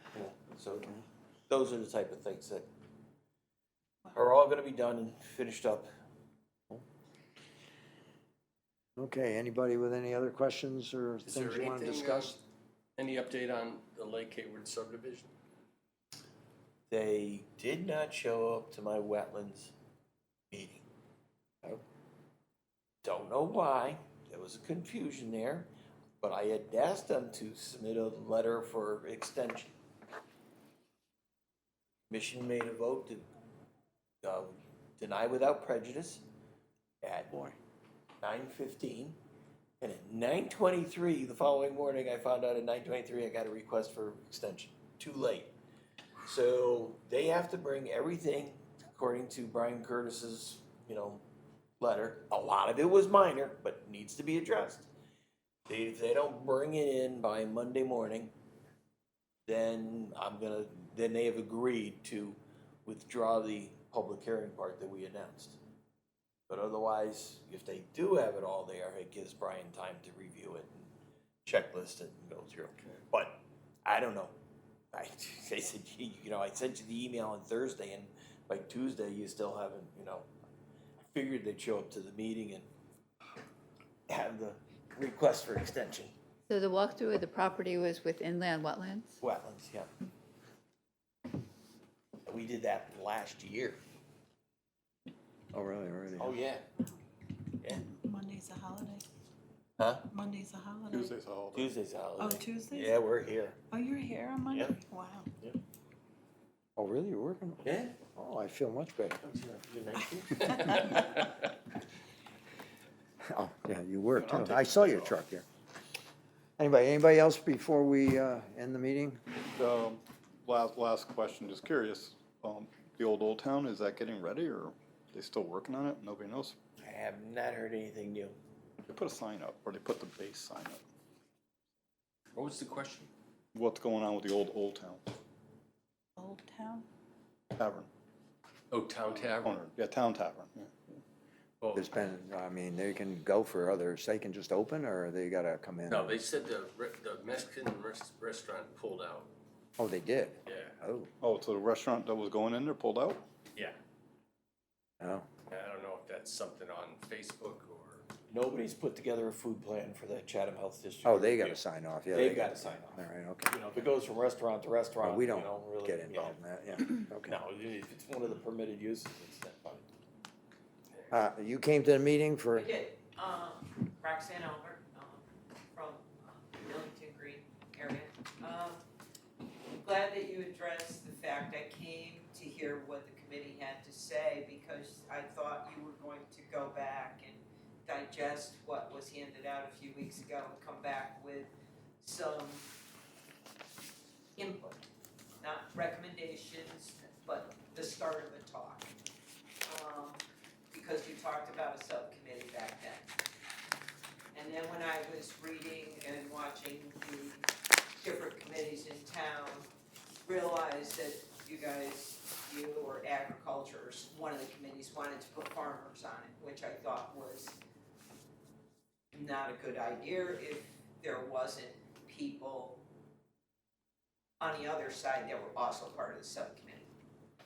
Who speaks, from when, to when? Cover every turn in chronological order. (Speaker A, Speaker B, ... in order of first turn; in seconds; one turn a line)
Speaker A: 0.1-0.9
Speaker A: 1.5-2.6
Speaker A: 4.1-5.9
Speaker B: 8.9-12.4
Speaker C: 11.2-12.4
Speaker C: 13.0-15.3
Speaker A: 16.9-19.7
Speaker A: 20.5-20.8
Speaker A: 23.0-25.7
Speaker A: 26.2-29.7
Speaker A: 32.1-33.2
Speaker A: 34.2-36.2
Speaker A: 37.0-37.3
Speaker A: 38.2-39.2
Speaker A: 39.8-45.5
Speaker A: 46.2-51.2
Speaker A: 51.8-54.9
Speaker A: 55.7-58.3
Speaker A: 59.5-65.6
Speaker A: 66.5-70.9
Speaker A: 71.4-74.3
Speaker A: 74.9-80.3
Speaker A: 81.1-82.7
Speaker A: 84.1-86.1
Speaker D: 86.5-89.2
Speaker A: 89.2-89.9
Speaker A: 92.2-93.8
Speaker B: 95.5-96.4
Speaker A: 96.2-96.6
Speaker E: 98.0-99.0
Speaker A: 99.8-100.1
Speaker E: 100.1-101.1
Speaker F: 100.9-101.7
Speaker A: 101.5-103.6
Speaker E: 102.2-103.0
Speaker E: 103.7-105.3
Speaker A: 104.5-104.8
Speaker B: 106.8-107.6
Speaker A: 107.6-107.9
Speaker B: 108.1-109.2
Speaker A: 109.2-110.6
Speaker B: 113.2-115.4
Speaker A: 114.2-115.0
Speaker B: 116.6-119.2
Speaker F: 119.5-126.6
Speaker A: 126.8-128.3
Speaker F: 128.8-130.8
Speaker C: 132.3-133.1
Speaker F: 133.5-135.1
Speaker E: 136.2-136.8
Speaker F: 137.5-137.9
Speaker C: 138.7-139.6
Speaker F: 139.0-141.0
Speaker C: 141.6-141.9
Speaker B: 141.7-146.2
Speaker C: 145.9-149.3
Speaker B: 149.8-151.1
Speaker C: 150.5-150.7
Speaker F: 151.2-153.2
Speaker B: 155.0-155.2
Speaker C: 155.5-158.0
Speaker A: 158.3-166.3
Speaker B: 161.0-163.8
Speaker B: 165.0-167.4
Speaker A: 167.3-169.8
Speaker B: 171.1-172.7
Speaker G: 172.5-178.8
Speaker G: 179.8-192.7
Speaker G: 194.3-194.8
Speaker G: 195.4-198.9
Speaker G: 199.6-200.2
Speaker G: 200.7-203.1
Speaker G: 204.3-207.4
Speaker G: 208.0-209.7
Speaker G: 210.2-217.6
Speaker G: 219.1-222.8
Speaker G: 224.4-226.9